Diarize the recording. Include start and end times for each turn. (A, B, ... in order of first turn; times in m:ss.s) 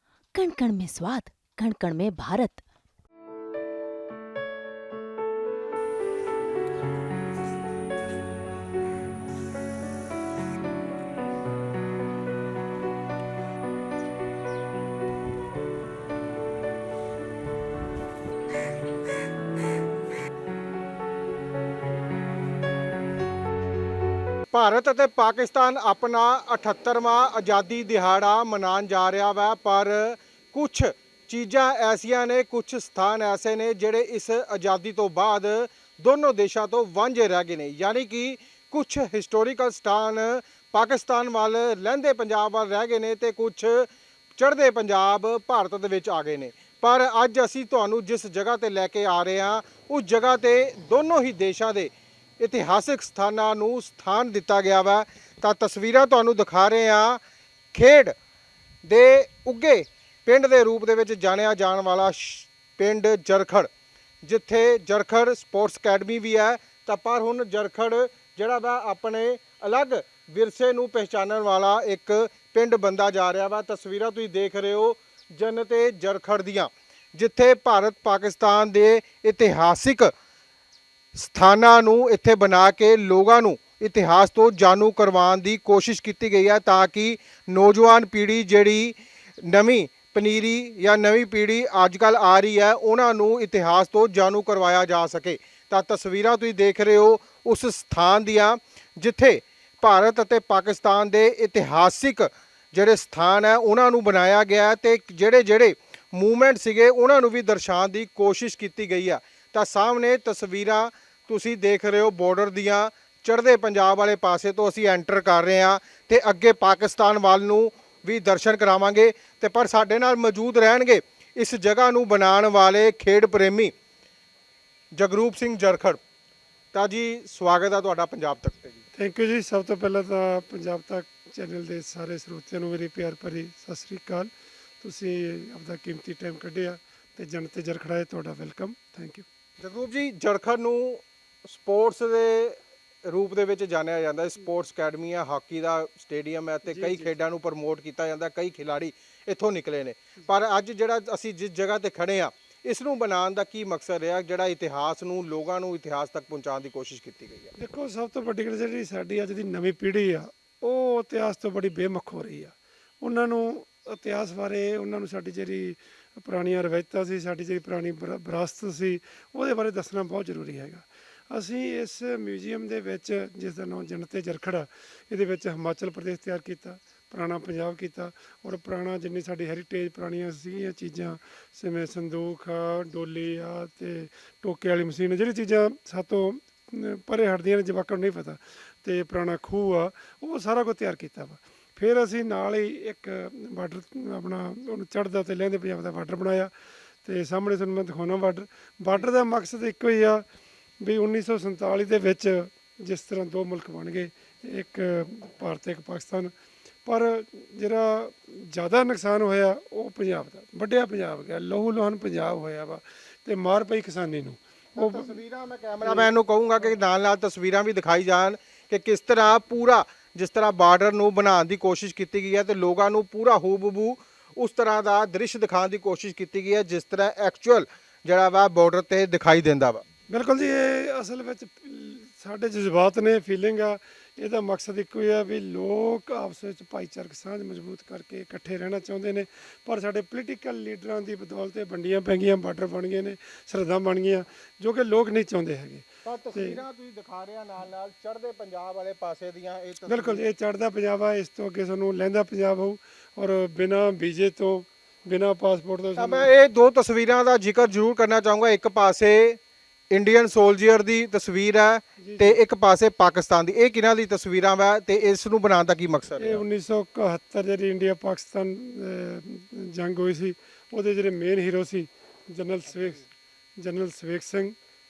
0:00.3-0:02.6 A
0:24.5-0:57.2 B
0:57.7-0:58.1 B
0:58.8-1:03.7 B
1:04.2-1:20.1 B
1:21.2-2:03.7 B
2:04.9-2:06.0 B
2:06.7-2:08.8 B
2:08.9-2:19.2 C
2:19.6-2:37.5 B
2:26.7-2:27.1 C
2:37.6-3:16.5 C
3:17.0-3:20.2 C
3:20.8-3:26.3 C
3:26.8-3:35.2 C
3:34.8-3:49.8 B
3:35.8-3:36.1 C
3:50.1-4:06.6 C
4:06.0-4:10.2 B
4:09.8-4:16.3 C
4:16.0-4:19.4 B
4:19.9-4:26.4 B
4:22.0-4:22.4 C
4:26.2-4:34.5 C